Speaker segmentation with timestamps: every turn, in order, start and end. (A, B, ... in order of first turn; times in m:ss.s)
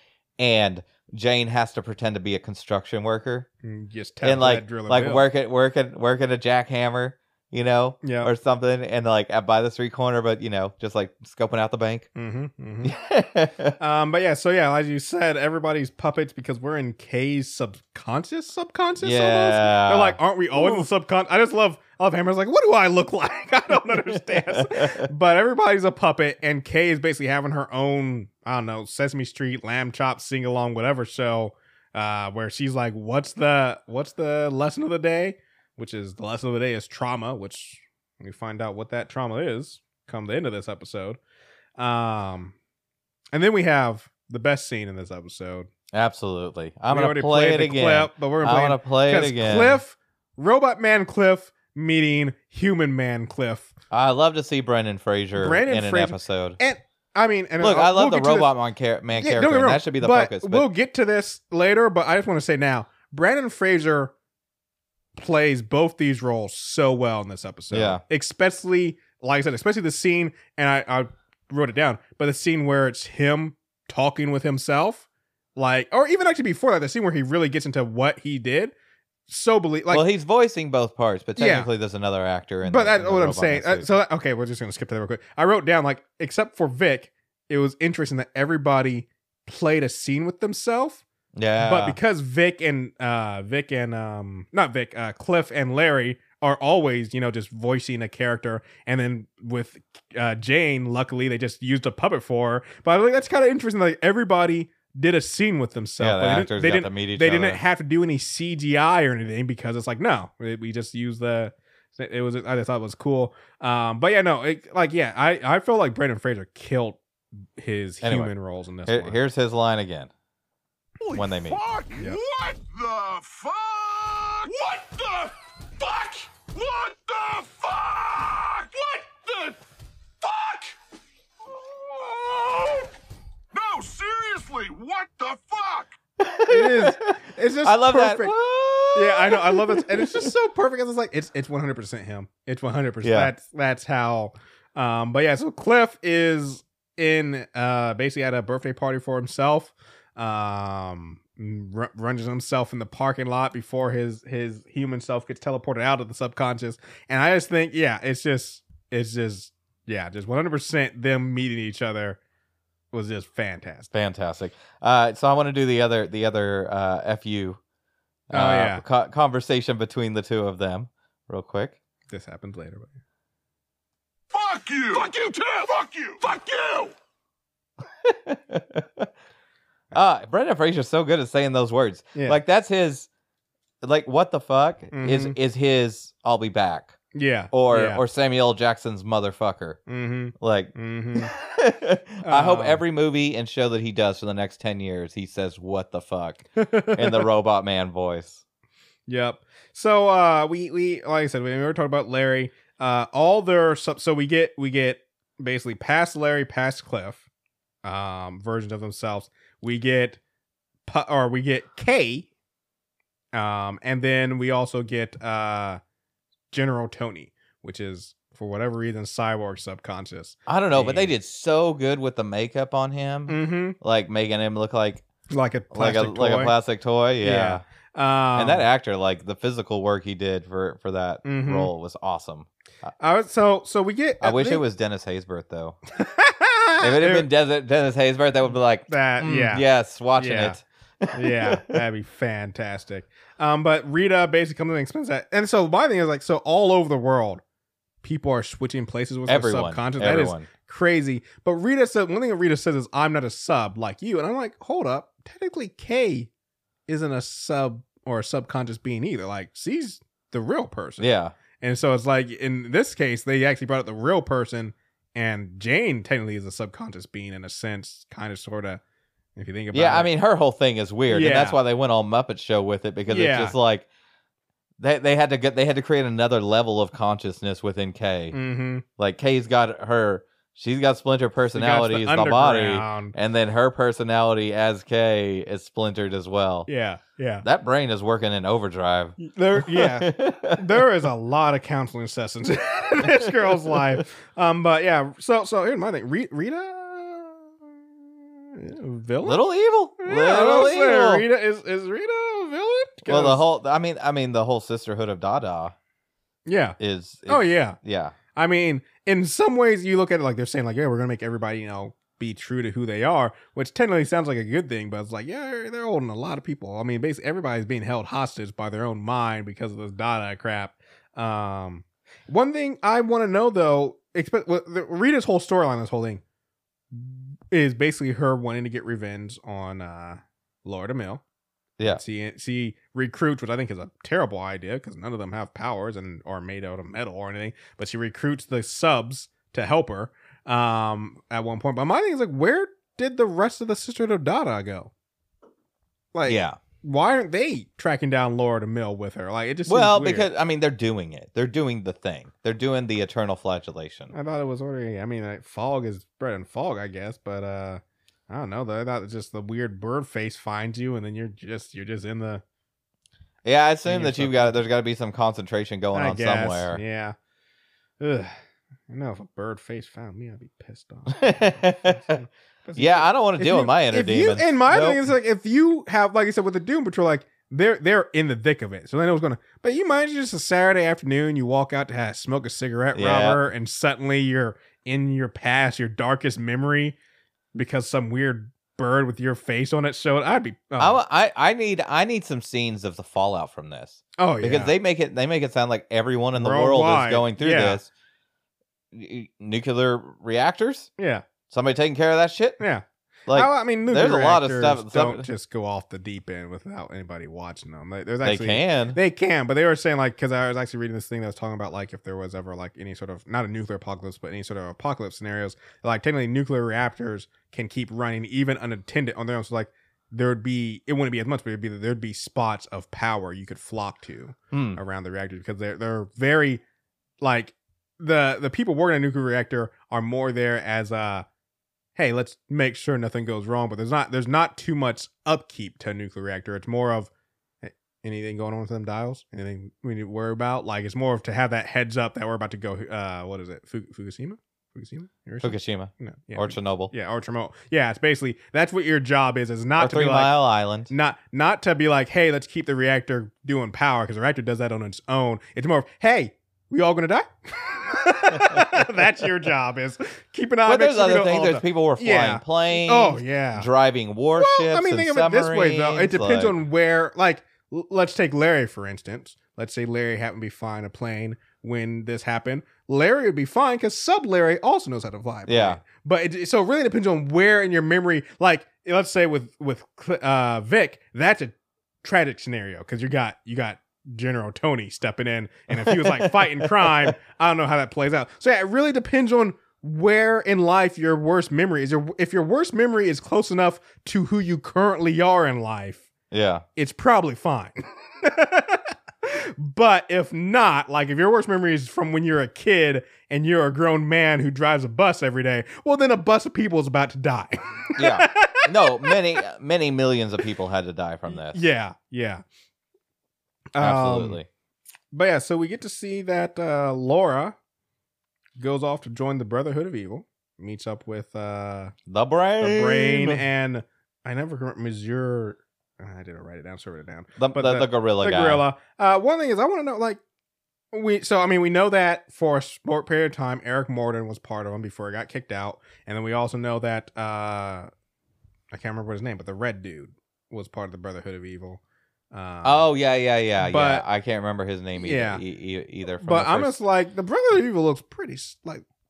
0:00.4-0:03.5 A
0:03.6-0:05.2 B
0:04.2-0:12.1 A
0:08.0-0:08.3 B
0:12.2-0:12.9 B
0:12.8-0:13.8 A
0:13.8-0:41.2 B
0:19.0-0:20.9 A
0:24.1-0:25.1 A
0:41.8-0:42.5 B
0:43.3-0:45.7 B
0:45.9-0:49.8 A
0:46.9-0:53.7 B
0:53.9-0:56.6 A
0:55.4-0:58.5 B
0:57.6-1:00.7 A
0:59.2-1:04.1 B
1:05.1-1:15.0 B
1:07.7-1:08.0 A
1:15.6-1:18.7 B
1:19.3-1:20.0 B
1:19.9-1:24.0 A
1:21.4-1:21.7 B
1:22.6-1:31.0 B
1:31.3-1:32.0 A
1:31.6-1:57.0 B
1:46.0-1:47.6 A
1:57.6-1:59.2 B
1:58.0-1:58.3 A
1:58.8-2:00.1 A
2:01.0-2:09.6 C
2:01.1-2:01.6 A
2:01.9-2:02.2 B
2:10.2-2:10.8 C
2:11.4-2:12.9 C
2:13.5-2:16.0 C
2:16.2-2:20.3 A
2:16.5-2:18.3 B
2:18.9-2:42.2 B
2:23.0-2:23.3 A
2:42.9-2:43.9 B
2:43.9-2:47.6 A
2:48.3-2:51.8 A
2:48.3-2:48.8 B
2:52.1-2:52.9 B
2:54.3-2:56.9 C
2:58.0-2:59.1 A
2:59.9-3:03.1 A
3:03.8-3:07.0 A
3:04.9-3:05.4 B
3:07.1-3:08.0 B
3:07.5-3:09.8 A
3:09.9-3:11.3 B
3:10.4-3:18.4 A
3:12.2-3:12.8 B
3:16.6-3:17.3 B
3:19.1-3:27.2 B
3:27.8-3:30.2 B
3:30.8-3:32.3 B
3:33.3-3:35.8 B
3:36.5-3:41.1 B
3:40.5-3:45.0 A
3:43.3-3:43.8 B
3:45.3-3:46.5 B
3:45.7-3:47.6 A
3:47.2-3:48.6 B
3:48.4-3:52.9 A
3:51.2-3:51.7 B
3:53.0-3:54.6 B
3:54.2-3:55.8 A
3:55.9-3:57.2 B
3:56.8-4:01.8 A
3:58.9-4:00.6 B
4:01.1-4:07.4 B
4:08.0-4:16.3 B
4:09.3-4:10.5 A
4:16.9-4:21.1 B
4:21.0-4:21.3 A
4:21.6-4:28.8 B
4:29.4-4:30.1 B
4:29.7-4:33.8 A
4:31.1-4:31.6 B
4:33.1-4:33.5 B
4:34.8-4:38.4 A
4:38.3-4:38.8 B
4:39.0-4:46.7 A
4:41.5-4:43.1 B
4:46.7-4:47.4 B
4:47.4-4:50.6 A
4:49.3-4:59.4 B
4:59.2-5:01.2 A
5:00.0-5:03.4 B
5:03.0-5:05.7 A
5:06.4-5:07.8 B
5:06.8-5:08.1 A
5:08.3-5:26.2 B
5:26.9-5:31.2 B
5:31.8-5:44.9 B
5:46.1-5:50.2 B
5:46.2-5:46.6 A
5:49.6-5:54.1 A
5:54.1-6:02.4 B
6:03.4-6:06.8 A
6:03.8-6:04.6 B
6:05.9-6:07.2 B
6:08.0-6:08.4 B
6:08.9-6:27.0 B
6:11.1-6:12.2 A
6:12.8-6:15.0 A
6:22.9-6:23.4 A
6:27.5-6:31.0 B
6:30.8-6:37.9 A
6:34.2-6:34.7 B
6:36.3-6:37.8 B
6:38.9-6:40.9 A
6:41.0-6:41.2 B
6:41.5-6:42.6 A
6:42.6-7:06.6 B
6:43.3-6:45.2 A
6:48.2-6:49.0 A
7:04.5-7:04.8 A
7:07.2-7:11.2 B
7:12.0-7:17.1 B
7:17.6-7:43.7 B
7:25.4-7:26.9 A
7:29.8-7:30.9 A
7:40.6-7:46.6 A
7:44.3-8:16.1 B
7:55.5-7:55.8 A
8:05.7-8:07.1 A
8:16.3-8:16.6 A
8:16.8-8:29.3 B
8:28.0-8:31.6 A
8:31.3-8:32.4 B
8:33.7-8:34.4 B
8:33.8-8:34.5 A
8:35.1-8:37.6 B
8:38.6-8:41.9 B
8:42.1-8:43.4 A
8:42.6-8:50.2 B
8:47.4-8:48.6 A
8:50.9-8:57.9 B
8:58.7-9:02.8 B
9:02.6-9:06.8 A
9:03.6-9:04.0 B
9:05.0-9:05.4 B
9:06.2-9:08.8 B